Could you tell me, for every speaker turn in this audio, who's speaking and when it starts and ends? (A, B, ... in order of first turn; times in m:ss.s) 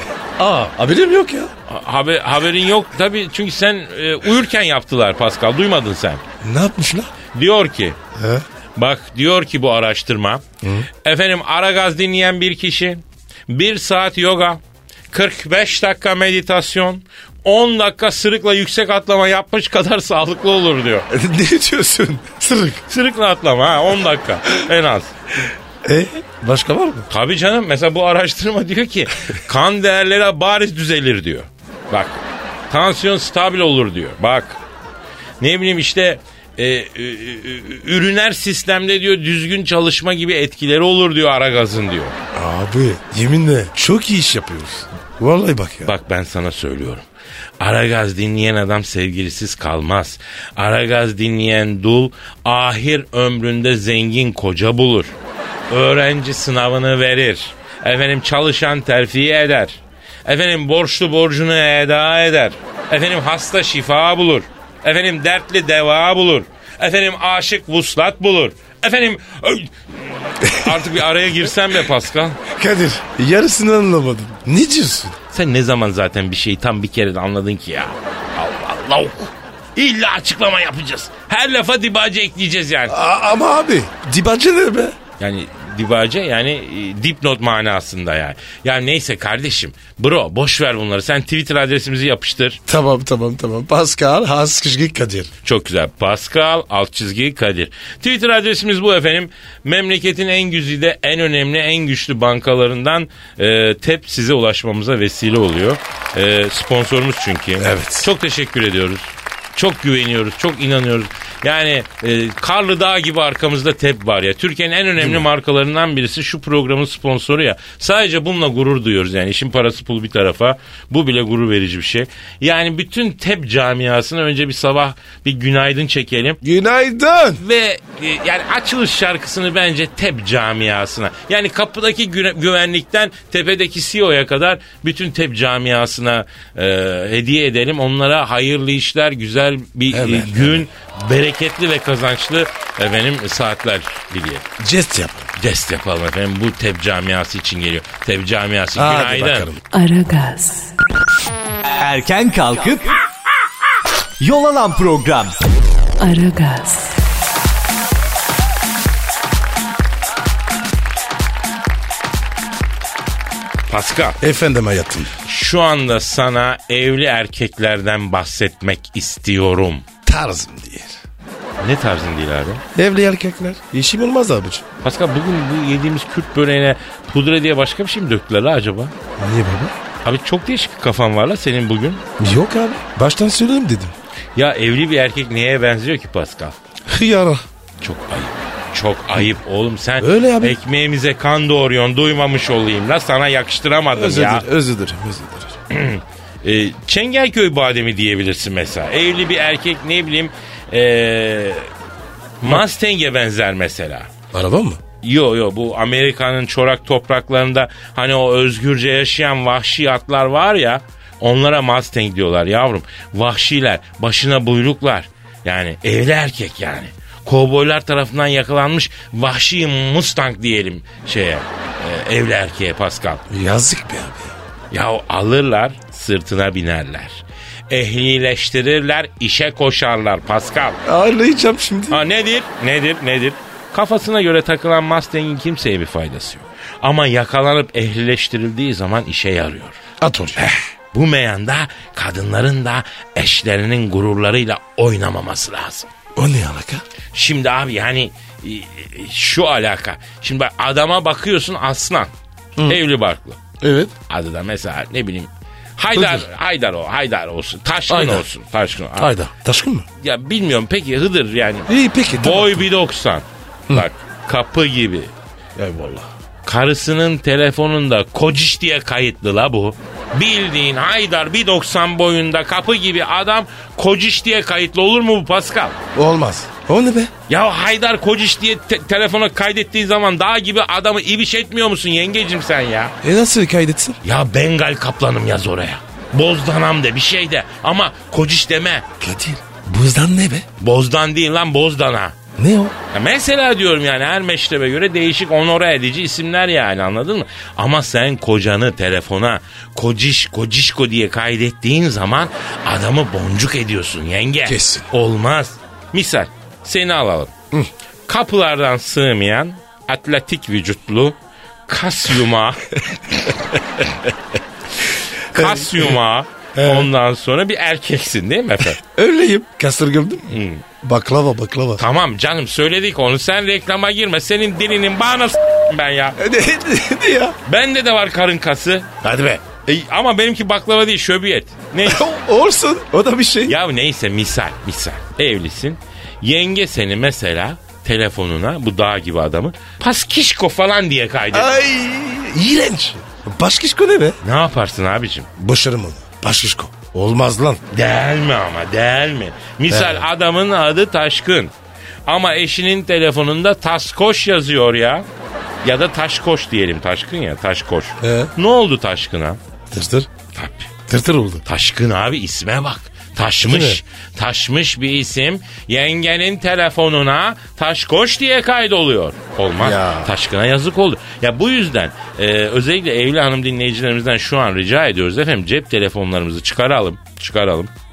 0:00.4-0:01.5 A
0:01.7-0:06.2 B
0:06.4-0:07.1 A
0:07.3-0:08.0 B
0:08.1-0:08.4 A
0:08.8-0:10.4 B
0:10.6-0:10.9 A
0:11.0-0:21.1 B
0:21.1-0:22.8 A
0:22.9-0:25.1 B
0:25.8-0:27.1 A
0:27.1-0:34.6 B
0:35.4-0:42.2 B
0:42.3-0:45.9 A
0:45.8-0:47.0 B
0:47.6-0:55.1 B
0:55.7-1:12.4 B
1:10.4-1:10.8 A
1:12.5-1:15.2 A
1:15.3-1:23.0 B
1:22.9-1:25.0 A
1:25.2-1:32.6 B
1:32.7-1:35.3 A
1:35.4-2:06.4 B
1:47.6-1:48.1 A
1:55.0-1:55.3 A
2:06.4-2:07.4 A
2:07.4-2:24.4 B
2:19.9-2:20.7 A
2:24.6-2:25.3 A
2:25.4-2:29.5 B
2:28.8-2:29.6 A
2:29.7-2:30.7 C
2:31.8-2:32.9 D
2:34.2-2:35.4 D
2:36.0-2:37.0 C
2:43.7-2:44.2 B
2:44.2-2:45.1 A
2:45.2-2:49.8 B
2:50.0-2:51.0 A
2:51.6-2:52.6 B
2:52.7-2:54.6 A
2:54.8-2:58.9 B
2:59.2-2:59.7 A
3:00.0-3:02.0 B
3:02.2-3:03.9 A
3:04.4-3:06.6 B
3:06.9-3:07.4 A
3:07.8-3:14.5 B
3:10.0-3:10.6 A
3:13.9-3:15.5 A
3:15.7-3:21.7 B
3:22.4-3:24.1 B
3:24.3-3:24.8 A
3:25.0-3:43.2 B
3:43.3-3:44.3 A
3:44.7-3:50.8 B
3:50.8-3:52.0 A
3:51.9-3:59.8 B
4:00.0-4:00.5 A
4:00.4-4:05.9 B
4:06.2-4:06.8 A
4:07.1-4:12.1 B
4:12.6-4:13.4 B
4:13.6-4:13.9 A
4:14.1-4:19.1 B
4:15.9-4:16.2 A
4:17.9-4:18.2 A
4:19.0-4:19.8 A
4:20.0-4:25.1 B
4:21.7-4:22.7 A
4:25.6-4:26.1 A
4:26.4-4:35.8 B
4:35.9-4:37.1 A
4:37.3-4:42.9 B
4:43.0-4:44.0 A
4:44.0-4:48.8 B
4:49.0-4:50.5 A
4:50.6-4:52.2 B
4:52.4-4:52.7 A
4:52.9-5:07.3 B
5:04.4-5:04.9 A
5:08.1-5:11.2 B
5:11.7-5:12.7 B
5:13.3-5:13.8 A
5:15.3-5:18.8 B
5:15.3-5:16.0 A
5:16.5-5:16.9 A
5:18.8-5:21.8 A
5:20.3-5:20.6 B
5:21.8-5:26.2 B
5:26.2-5:27.4 A
5:27.4-5:28.9 B
5:29.0-5:29.4 A
5:29.6-5:32.0 B
5:31.8-5:33.6 A
5:33.4-5:41.5 B
5:41.3-5:44.2 A
5:44.2-5:45.3 B
5:45.4-5:47.6 A
5:47.7-5:51.5 B
5:49.7-5:50.0 A
5:52.1-5:55.0 B
5:55.6-5:59.4 B
5:58.0-5:58.3 A
5:59.7-6:00.1 A
6:00.3-6:00.7 B
6:00.9-6:01.4 A
6:01.4-6:17.7 B
6:03.4-6:03.8 A
6:09.6-6:10.1 A